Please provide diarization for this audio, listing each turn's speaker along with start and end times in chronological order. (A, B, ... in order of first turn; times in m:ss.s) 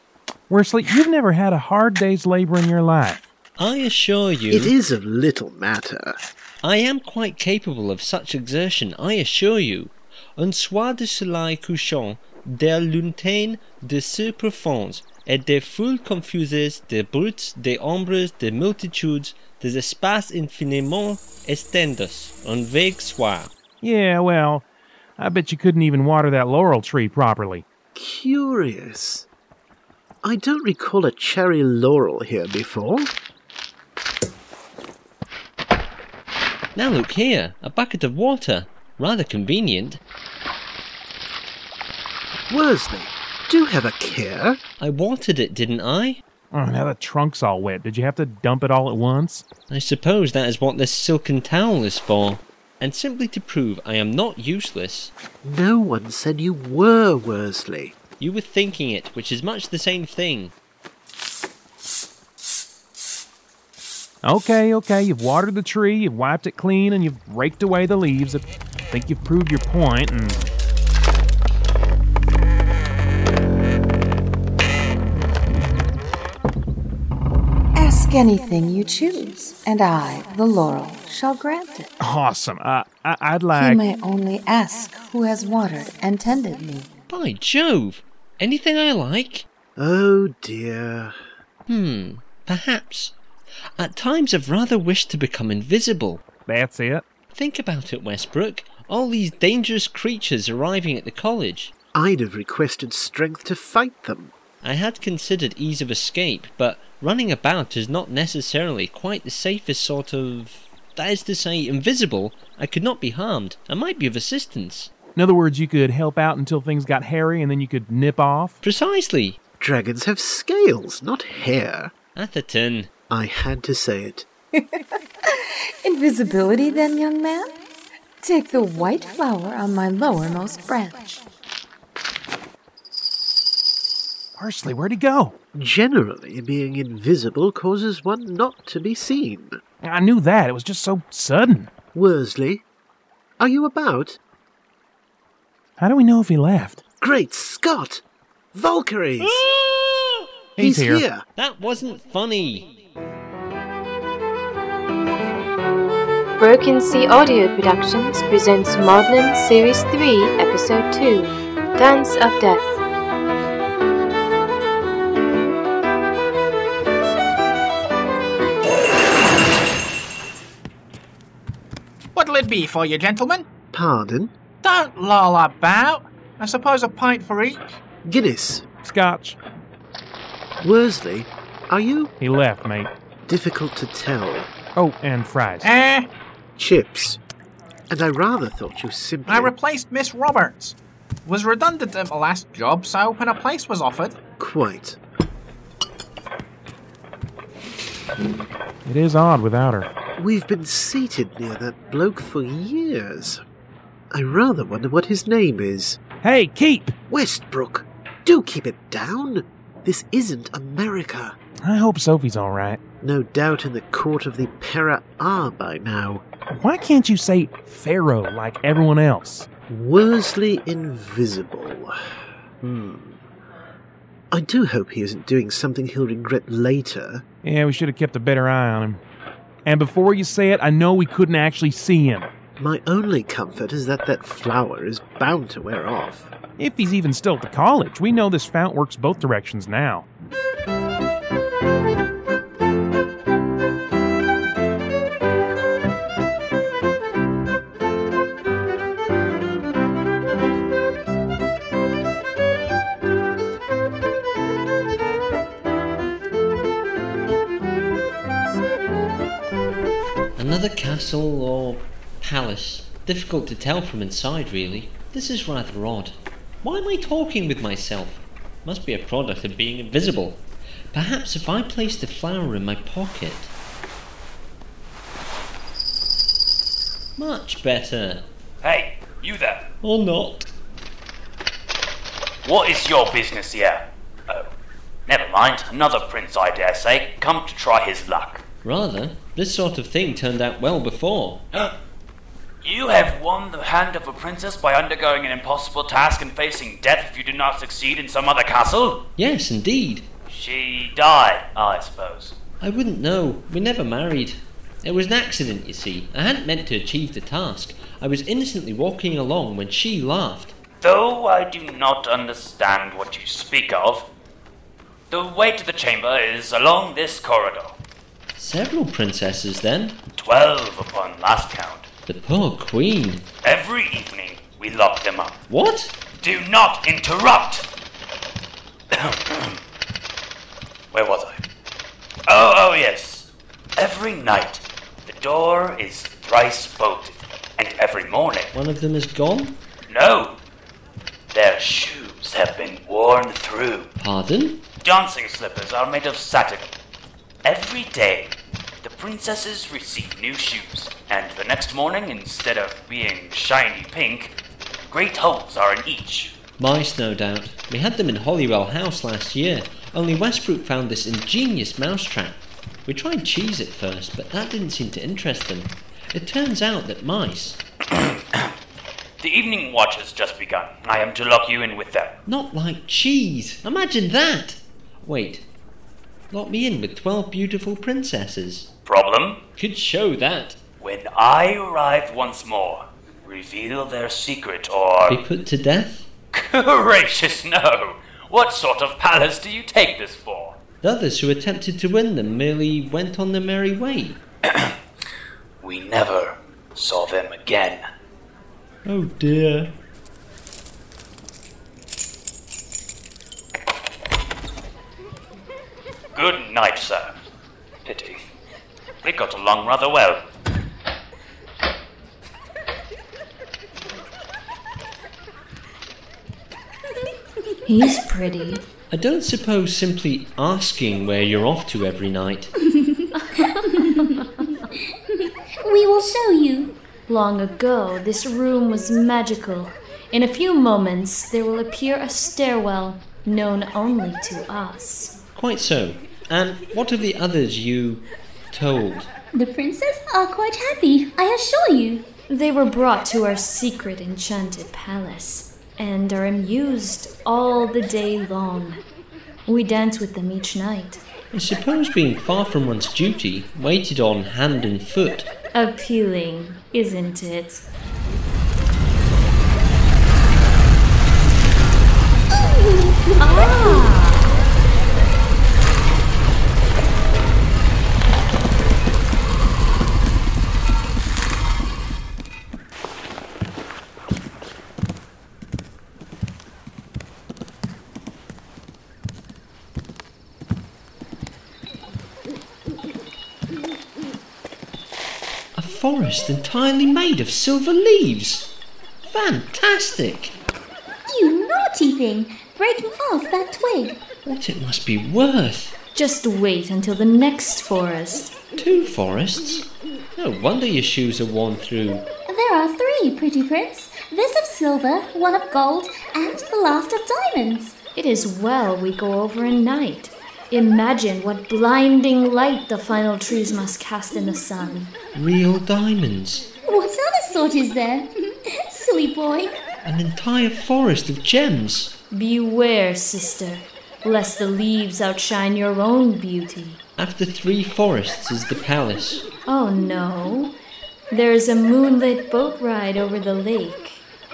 0:00.5-0:03.2 A
0:03.6-0:04.7 B
0:04.5-0:06.2 C
0:06.6-0:23.5 B
0:23.8-0:24.6 A
0:25.2-0:27.6 A
0:28.0-0:29.3 C
0:30.2-0:33.1 C
0:36.8-0:40.0 B
0:42.5-0:44.6 C
0:44.8-0:46.2 B
0:46.5-0:49.5 A
0:49.7-0:55.1 B
0:55.4-0:58.0 C
0:58.2-1:00.5 B
1:04.2-1:10.4 A
1:17.8-1:21.9 D
1:22.0-1:23.8 A
1:23.5-1:26.9 D
1:27.1-1:29.5 B
1:29.8-1:31.2 C
1:31.7-1:33.2 B
1:33.8-1:36.2 B
1:36.4-1:37.0 A
1:37.4-1:41.7 B
1:41.9-1:44.3 C
1:44.6-1:54.9 B
1:55.1-1:58.6 A
1:58.6-1:59.4 B
1:59.6-2:01.9 C
2:02.2-2:02.9 B
2:03.1-2:04.3 C
2:04.6-2:07.6 D
2:08.2-2:11.2 D
2:14.4-2:15.3 A
2:15.6-2:19.6 C
2:19.8-2:21.7 A
2:21.9-2:22.6 C
2:23.4-2:24.2 C
2:25.8-2:26.8 A
2:27.0-2:28.0 C
2:28.5-2:29.5 C
2:29.6-2:30.2 B
2:30.6-2:31.0 A
2:30.6-2:31.2 C
2:31.4-2:32.7 B
2:36.4-2:42.8 E
2:52.2-2:53.5 F
2:53.7-2:54.3 C
2:54.6-2:57.6 F
2:58.0-2:58.6 C
2:58.8-2:59.4 A
3:00.6-3:02.1 C
3:02.2-3:02.9 A
3:03.3-3:04.5 C
3:04.8-3:05.7 A
3:05.6-3:06.1 F
3:06.6-3:07.2 C
3:07.9-3:09.5 C
3:09.3-3:10.8 F
3:11.3-3:14.2 F
3:14.4-3:15.0 C
3:18.8-3:19.9 A
3:20.2-3:23.4 C
3:24.1-3:26.0 C
3:26.2-3:26.9 A
3:27.1-3:31.4 C
3:31.6-3:32.8 A
3:33.0-3:36.2 C
3:36.5-3:39.5 A
3:39.7-3:41.9 C
3:42.6-3:43.2 C
3:44.3-3:47.2 C
3:47.4-3:49.0 A
3:49.7-3:52.3 A
3:52.6-3:56.3 C
3:56.6-4:00.0 A
4:20.4-4:30.4 B
4:30.9-4:33.5 B
4:37.2-4:38.2 B
4:38.6-4:39.6 G
4:39.8-4:40.5 B
4:42.4-4:44.5 G
4:45.1-4:48.4 G
4:48.6-4:51.4 B
4:52.6-4:59.0 G
4:59.2-5:00.1 B
5:00.3-5:02.4 G
5:02.6-5:10.5 B
5:10.8-5:14.1 G
5:15.1-5:17.8 G
5:18.4-5:20.0 B
5:20.2-5:21.9 G
5:22.1-5:23.2 B
5:23.4-5:25.4 G
5:25.5-5:25.9 B
5:26.1-5:27.6 G
5:28.9-5:29.6 G
5:30.9-5:31.4 G
5:32.3-5:38.5 G
5:38.6-5:39.6 B
5:39.9-5:40.4 G
5:41.3-5:43.9 G
5:44.0-5:44.6 B
5:44.8-5:46.7 G
5:47.4-5:54.3 G
5:54.9-5:56.4 G
5:56.6-6:07.6 B
6:07.9-6:08.5 G
6:09.2-6:12.1 G
6:12.3-6:15.4 B
6:16.3-6:18.7 B
6:18.8-6:19.4 G
6:19.6-6:20.6 B
6:20.8-6:25.2 G
6:25.1-6:26.1 B
6:26.3-6:30.6 G
6:30.8-6:34.2 B
6:35.6-6:37.8 G
6:38.9-6:39.7 B
6:46.2-6:47.1 G
6:47.9-6:48.2 G
6:49.0-6:50.2 G
6:57.6-6:58.6 H
6:58.9-7:02.5 B
7:02.6-7:06.7 I
7:07.1-7:15.2 H
7:15.4-7:19.1 B
7:19.3-7:22.0 I
7:22.3-7:28.8 H
7:29.5-7:31.0 H
7:31.3-7:35.3 B
7:35.5-7:37.7 H
7:42.3-7:43.9 I
7:43.2-7:44.3 H
8:05.6-8:08.5 B
8:09.1-8:10.3 B
8:11.1-8:14.0 I
8:14.3-8:15.7 B
8:15.9-8:18.4 H
8:18.6-8:22.1 B
8:22.3-8:27.8 I
8:28.0-8:34.9 H
8:35.2-8:36.5 B
8:36.6-8:38.1 I
8:38.6-8:39.6 I
8:39.8-8:41.9 B
8:42.1-8:46.8 H
8:47.0-8:49.2 B
8:49.5-8:50.6 H
8:51.1-8:54.0 H